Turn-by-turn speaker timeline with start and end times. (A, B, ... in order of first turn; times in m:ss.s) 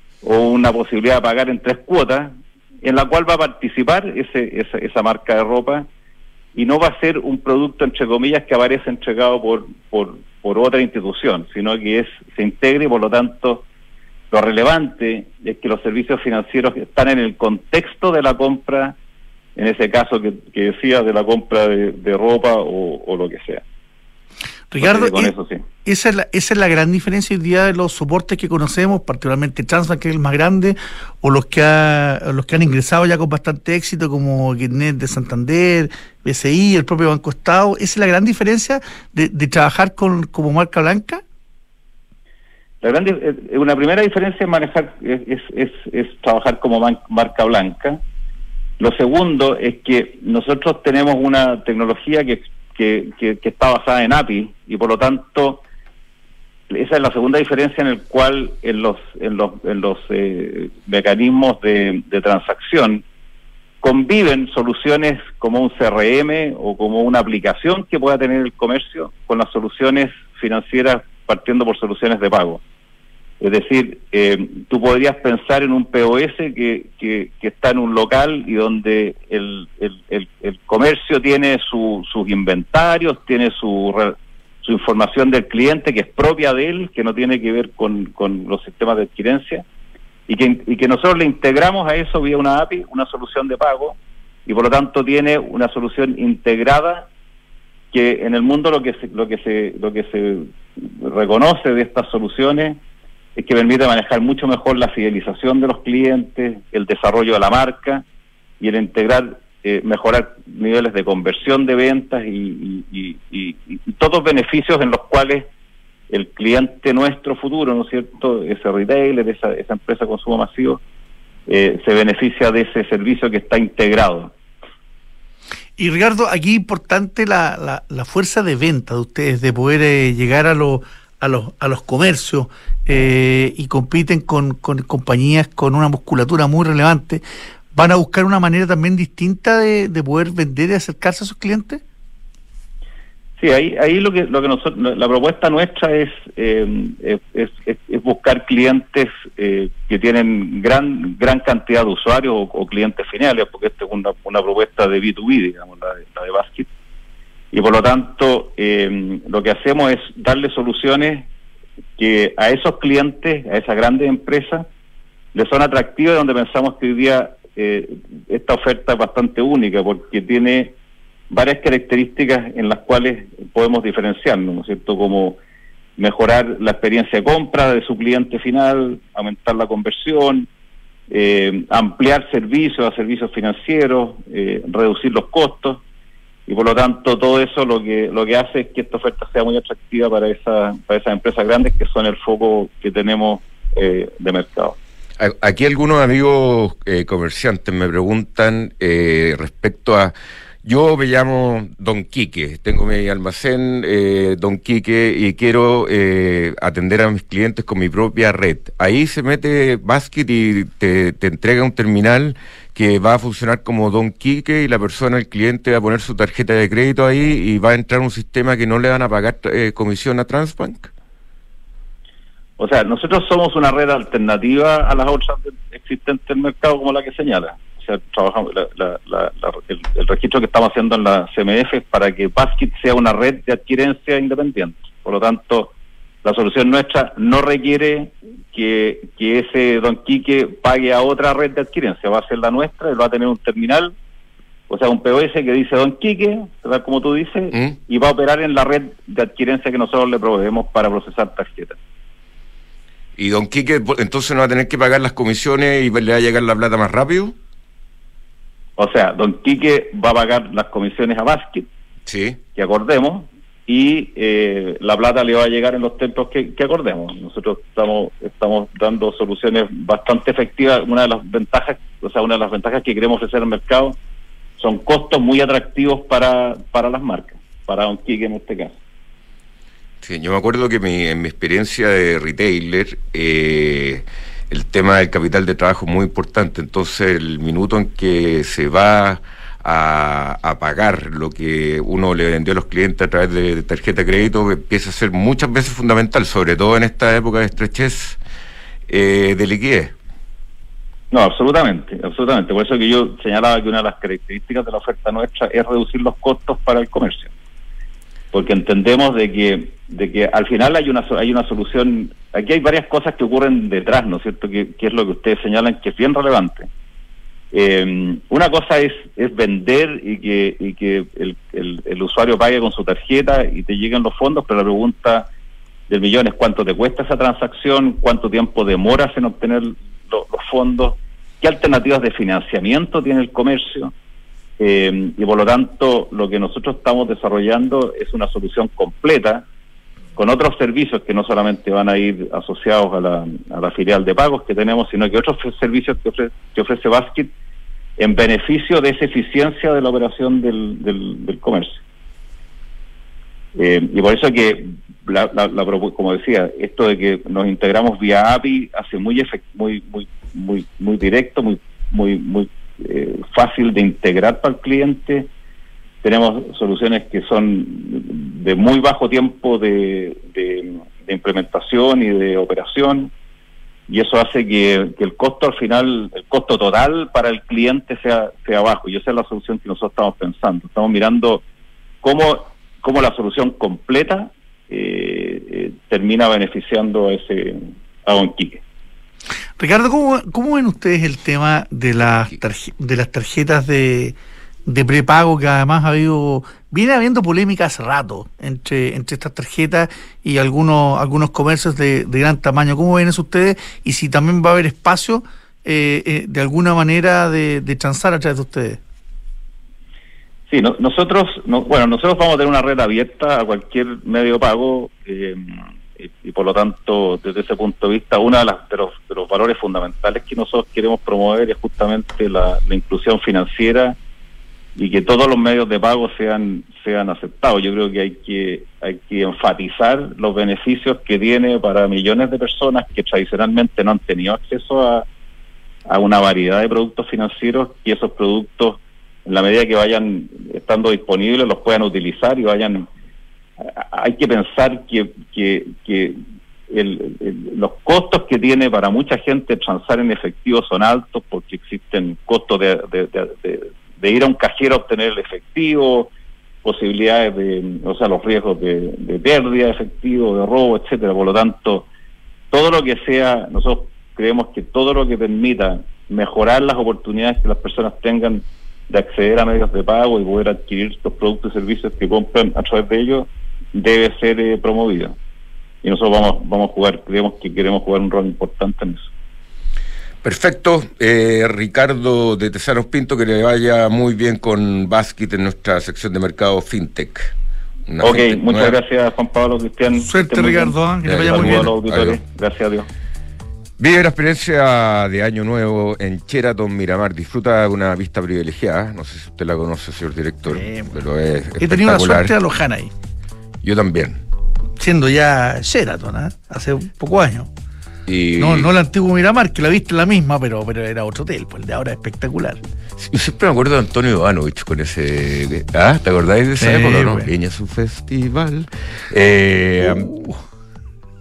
0:00.2-0:05.9 A
0:06.5-0:13.6 A
0:14.3-0:18.9 A
0:19.6-0:23.6 A
0:24.7-0:25.3 B
0:24.8-0:25.6 A
0:25.8-0:41.2 B
0:42.8-0:48.0 A
0:48.8-0:55.6 A
0:56.7-1:03.0 A
1:03.8-1:12.6 A
1:13.4-1:29.6 A
1:30.3-1:37.1 A
1:37.9-1:42.8 A
1:43.4-1:48.0 A
1:48.6-1:55.4 A
1:56.1-2:00.8 A
2:01.5-2:04.3 A
2:05.8-2:17.2 B
2:17.7-2:21.8 B
2:23.4-2:36.7 A
2:37.5-2:41.3 A
2:42.0-2:44.7 A
2:45.3-2:50.7 A
2:51.3-2:55.4 A
2:56.0-3:00.5 A
3:01.1-3:05.8 A
3:06.5-3:14.8 A
3:15.2-3:40.9 C
3:42.6-3:55.7 A
3:56.2-4:03.9 A
4:04.7-4:11.8 A
4:13.2-4:17.4 C
4:18.8-4:21.7 A
4:22.1-4:22.4 C
4:22.5-4:34.0 A
4:34.6-4:38.8 A
4:40.0-4:58.2 C
4:58.9-4:59.9 C
5:01.1-5:07.3 A
5:08.3-5:16.7 A
5:17.5-5:25.3 A
5:25.9-5:33.9 A
5:34.6-5:39.4 A
5:40.2-5:47.3 A
5:48.0-5:51.8 A
5:53.5-6:05.3 A
6:06.0-6:13.1 A
6:13.9-6:21.4 A
6:22.0-6:28.6 A
6:29.6-6:34.2 B
6:34.7-6:48.8 B
6:50.5-7:04.0 A
7:04.8-7:15.0 A
7:15.9-7:22.9 A
7:23.6-7:26.2 A
7:26.7-7:36.1 A
7:36.6-7:41.9 A
7:42.5-7:55.2 A
7:55.8-7:59.1 A
8:00.2-8:07.3 C
8:07.9-8:08.8 C
8:08.0-8:12.9 A
8:10.0-8:11.7 B
8:11.0-8:12.2 C
8:13.8-8:22.3 C
8:20.5-8:20.9 B
8:21.6-8:22.9 B
8:23.6-8:24.2 C
8:24.8-8:27.5 B
8:28.1-8:28.7 C
8:28.4-8:32.6 B
8:33.0-8:40.1 C
8:36.6-8:37.3 B
8:39.8-8:40.4 B